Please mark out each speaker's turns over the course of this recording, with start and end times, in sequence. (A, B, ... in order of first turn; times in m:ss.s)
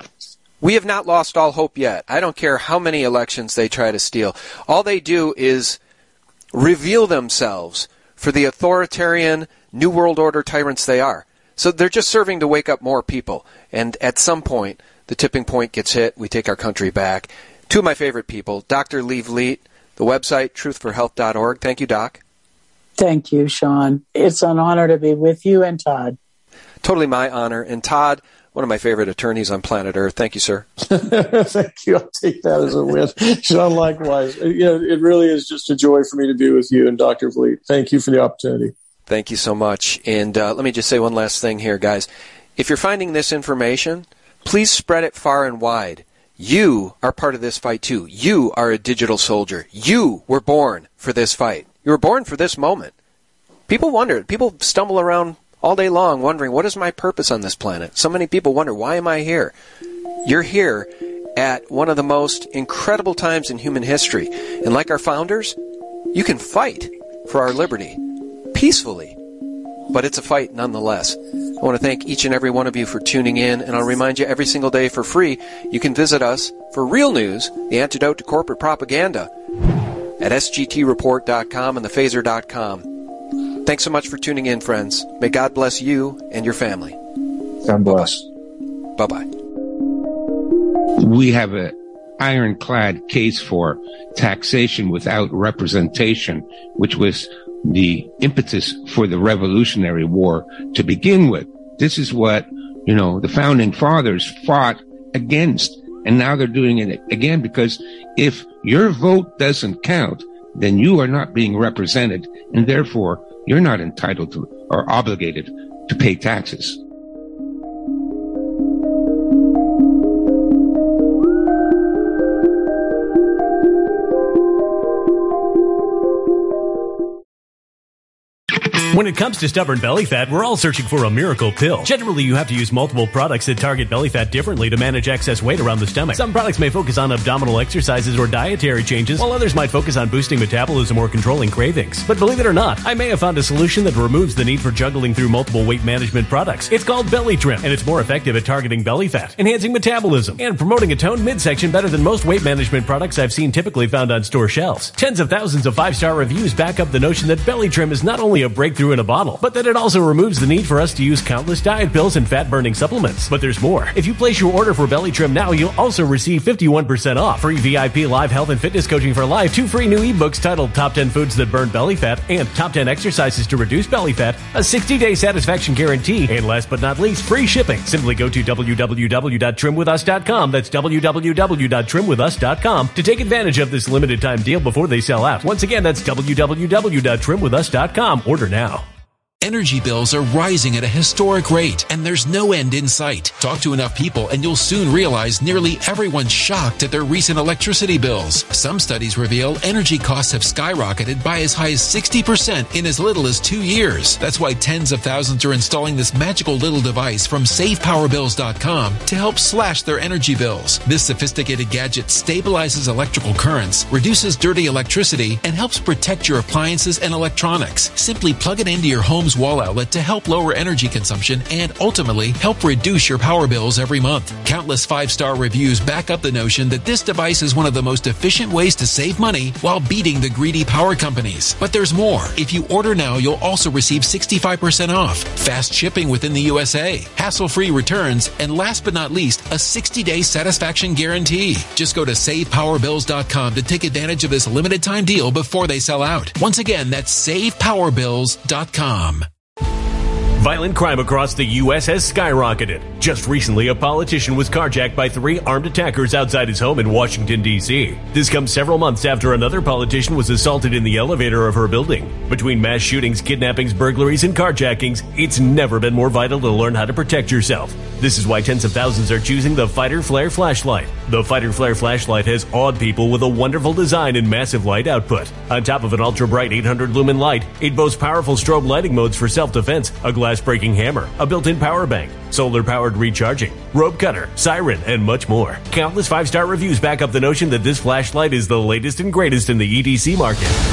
0:00.6-0:05.8 A
0:06.5-0:22.2 A
0:23.0-0:26.2 B
0:26.8-0:30.7 A
0:30.8-0:38.7 C
0:39.1-0:52.9 A
0:53.7-0:59.5 A
1:00.2-1:05.6 A
1:06.1-1:09.2 A
1:09.9-1:19.3 A
1:20.2-1:23.0 A
1:23.6-1:27.0 A
1:27.6-1:28.3 C
1:27.9-1:28.1 A
1:29.0-1:29.3 A
1:31.0-1:56.8 D
2:08.9-3:08.8 E
3:09.4-4:09.3 F
4:10.4-4:50.6 E